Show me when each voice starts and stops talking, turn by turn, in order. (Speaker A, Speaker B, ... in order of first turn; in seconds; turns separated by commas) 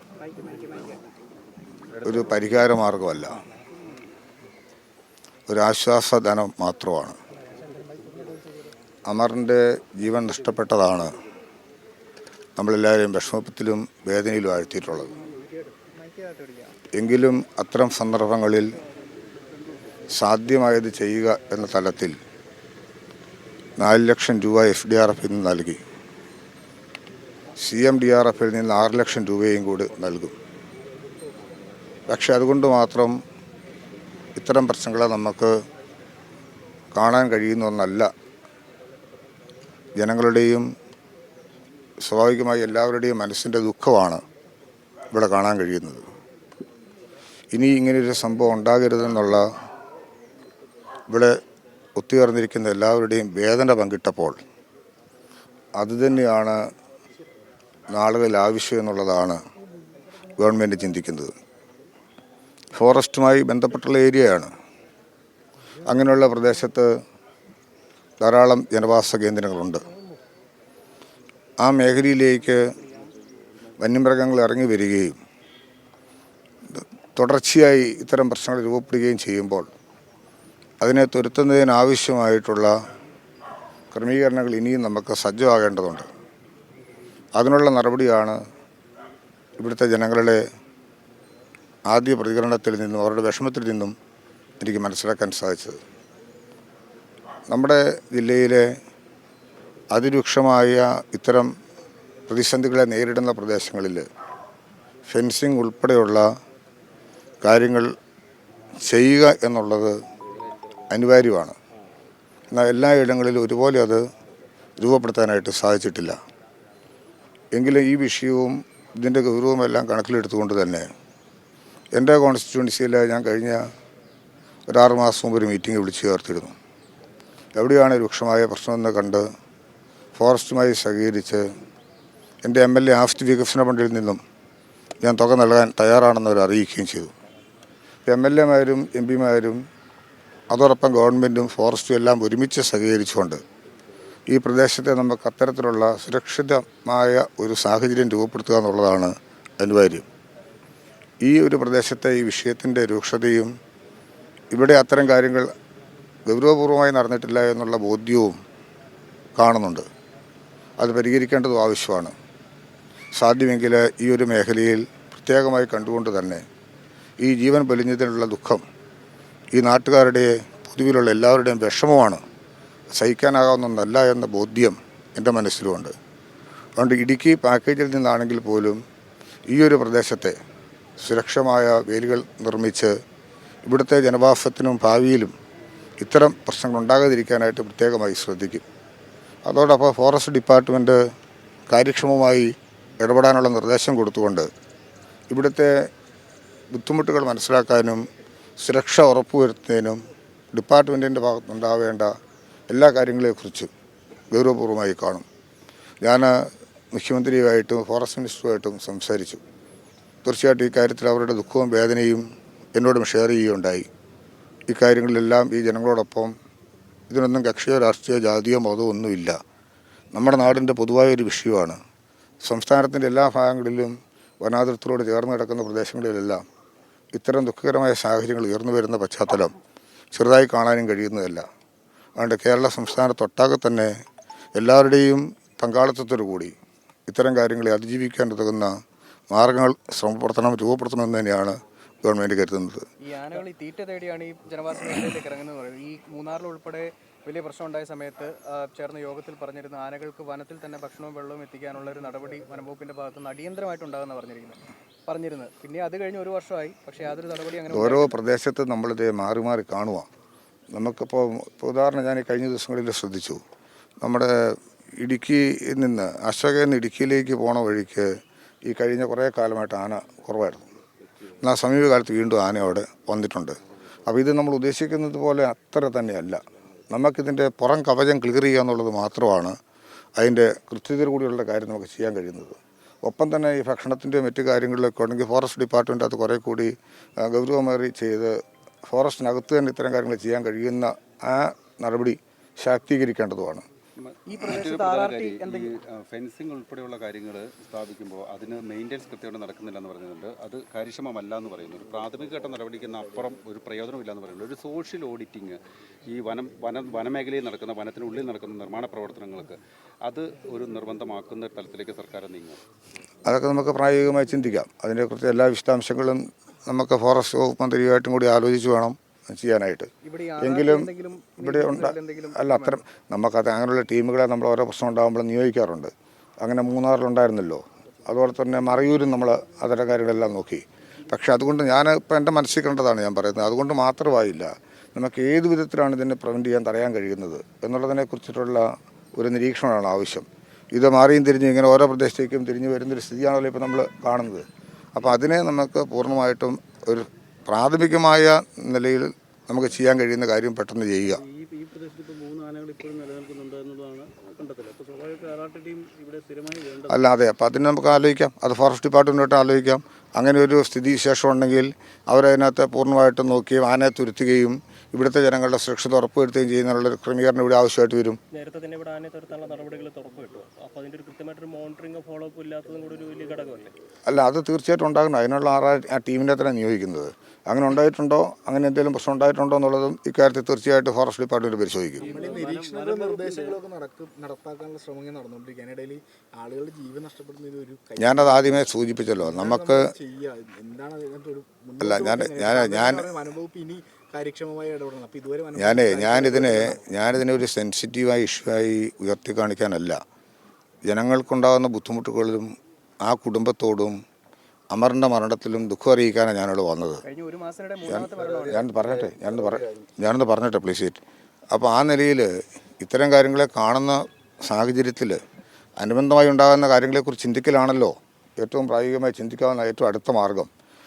Speaker A: 0.2-1.0, Speaker B: 2.0-2.2, Speaker C: 2.0-3.4, Speaker C: 5.5-7.2, Speaker C: 9.1-11.1, Speaker C: 12.6-15.1, Speaker D: 15.9-16.7, Speaker C: 16.9-18.8, Speaker C: 20.1-22.2, Speaker C: 23.8-25.8, Speaker C: 27.6-30.3, Speaker C: 32.1-33.2, Speaker C: 34.4-35.5, Speaker C: 36.9-38.1, Speaker C: 40.0-40.7, Speaker C: 42.0-44.2, Speaker C: 45.1-46.0, Speaker C: 47.5-49.5, Speaker C: 51.1-51.4, Speaker C: 52.0-54.4, Speaker C: 55.8-56.6, Speaker C: 57.9-59.4, Speaker C: 60.4-61.3, Speaker C: 62.7-64.5, Speaker C: 65.8-66.9, Speaker C: 68.2-69.8, Speaker C: 71.6-72.6, Speaker C: 73.8-75.2, Speaker C: 76.7-79.7, Speaker C: 80.8-82.8, Speaker C: 83.9-86.1, Speaker C: 87.3-88.4, Speaker C: 89.6-90.4, Speaker C: 91.9-94.0, Speaker C: 94.6-95.8, Speaker C: 97.5-98.7, Speaker C: 99.9-101.5, Speaker C: 102.3-104.1, Speaker C: 105.1-106.3, Speaker C: 107.4-107.9, Speaker C: 108.8-110.0, Speaker C: 110.9-111.5, Speaker C: 112.5-114.0, Speaker C: 114.8-116.2, Speaker C: 117.5-120.9, Speaker C: 121.9-123.6, Speaker C: 124.7-126.5, Speaker C: 127.5-129.2, Speaker C: 130.2-131.4, Speaker C: 132.4-134.2, Speaker C: 135.0-137.1, Speaker C: 138.1-139.6, Speaker C: 140.5-143.4, Speaker C: 144.3-150.1, Speaker C: 151.2-153.5, Speaker C: 154.5-155.5, Speaker C: 156.2-158.4, Speaker C: 159.3-159.8, Speaker C: 160.8-162.1, Speaker C: 163.1-166.4, Speaker C: 167.2-168.6, Speaker C: 169.5-172.2, Speaker C: 172.9-175.9, Speaker C: 176.8-178.8, Speaker C: 179.5-180.3, Speaker C: 181.0-182.9, Speaker C: 183.7-185.3, Speaker C: 186.0-188.6, Speaker C: 189.4-191.0, Speaker C: 191.7-194.5, Speaker C: 195.3-195.9, Speaker C: 196.7-198.1, Speaker C: 198.6-200.0, Speaker C: 200.5-202.1, Speaker C: 202.7-203.7, Speaker C: 204.3-205.2, Speaker C: 206.0-209.4, Speaker C: 210.2-212.2, Speaker C: 212.7-213.9, Speaker C: 214.7-216.3, Speaker C: 217.1-219.4, Speaker C: 220.1-221.8, Speaker C: 222.4-226.4, Speaker C: 227.1-229.5, Speaker C: 230.1-231.4, Speaker C: 232.2-233.9, Speaker C: 234.5-236.5, Speaker C: 237.1-238.8, Speaker C: 239.3-242.8, Speaker D: 243.0-258.1, Speaker C: 257.7-260.1, Speaker C: 260.7-263.4, Speaker C: 264.0-270.6, Speaker C: 271.4-279.6, Speaker C: 280.2-293.7, Speaker B: 294.0-312.6, Speaker D: 294.3-295.7, Speaker C: 313.2-351.2, Speaker D: 320.0-322.8, Speaker E: 351.1-357.0, Speaker C: 356.9-368.2, Speaker E: 368.3-373.7, Speaker C: 374.1-382.1, Speaker E: 382.0-383.6, Speaker A: 382.1-396.8, Speaker C: 388.0-389.9, Speaker C: 391.8-393.1, Speaker C: 395.6-400.0, Speaker C: 400.9-404.0, Speaker C: 404.7-407.0, Speaker D: 407.0-408.7, Speaker C: 407.9-411.0, Speaker C: 411.5-415.2, Speaker C: 415.8-420.5